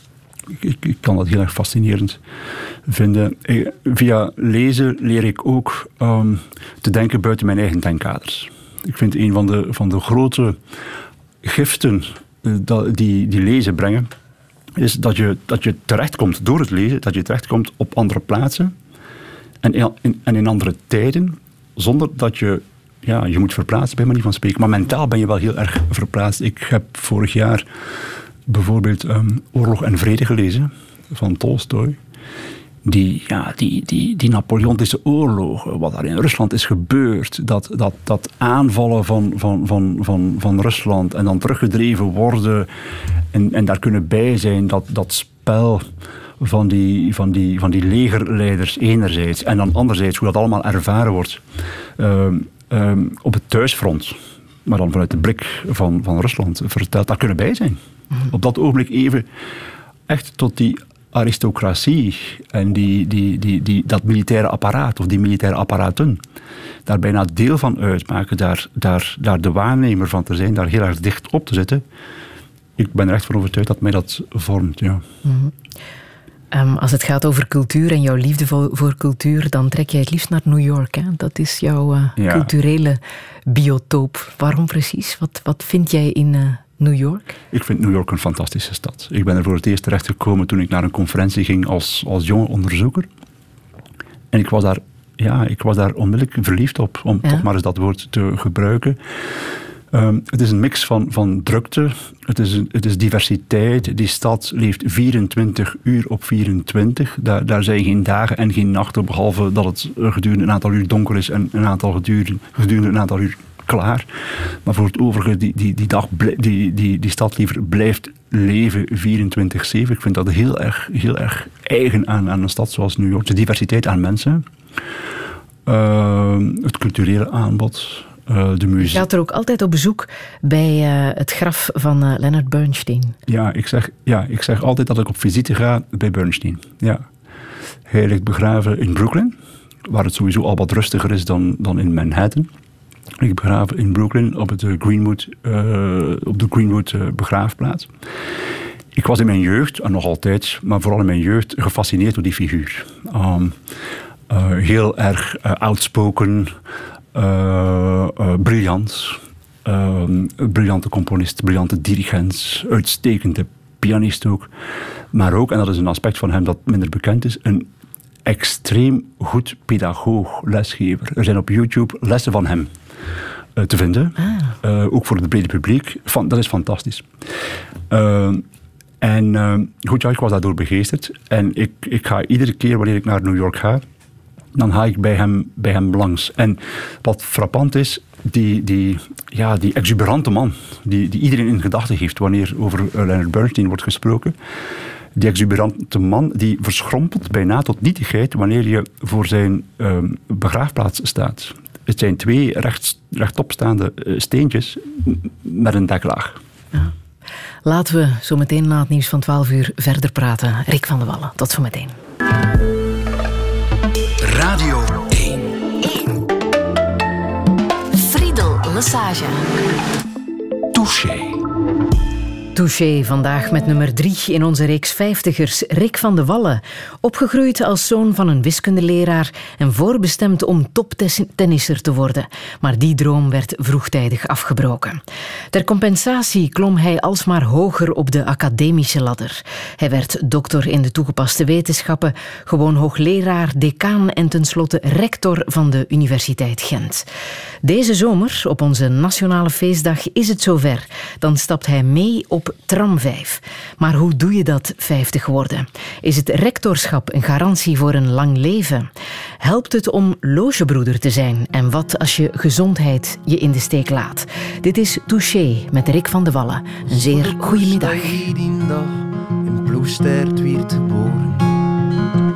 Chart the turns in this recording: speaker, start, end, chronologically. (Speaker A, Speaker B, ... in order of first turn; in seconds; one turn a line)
Speaker A: 0.5-2.2
Speaker A: 2.9-10.6
Speaker A: 11.4-14.1
Speaker A: 14.8-18.7
Speaker A: 19.6-27.7
Speaker A: 28.5-32.0
Speaker A: 32.9-42.7
Speaker A: 43.3-45.8
Speaker A: 46.4-51.4
Speaker A: 52.0-59.3
Speaker A: 60.1-66.2
Speaker A: 66.9-71.8
Speaker A: 72.8-75.0
Speaker B: 75.2-75.5
Speaker B: 76.5-87.4
Speaker A: 82.2-82.5
Speaker A: 87.5-93.1
Speaker A: 94.3-99.0
Speaker A: 99.9-114.1
Speaker A: 114.7-124.5
Speaker A: 125.7-129.1
Speaker B: 128.8-133.2
Speaker A: 133.3-137.0
Speaker A: 137.9-142.5
Speaker A: 143.2-147.9
Speaker A: 148.9-153.6
Speaker A: 154.3-156.5
Speaker A: 157.1-164.5
Speaker A: 165.1-167.7
Speaker A: 168.2-172.7
Speaker A: 173.6-177.1
Speaker A: 177.9-178.4
Speaker A: 179.0-183.8
Speaker A: 184.6-194.3
Speaker A: 195.2-206.4
Speaker B: 207.7-212.0
Speaker C: 214.2-215.6
Speaker B: 217.9-219.5
Speaker C: 220.8-221.4
Speaker B: 222.6-235.0
Speaker B: 235.5-247.1
Speaker B: 247.6-268.2
Speaker D: 266.9-271.6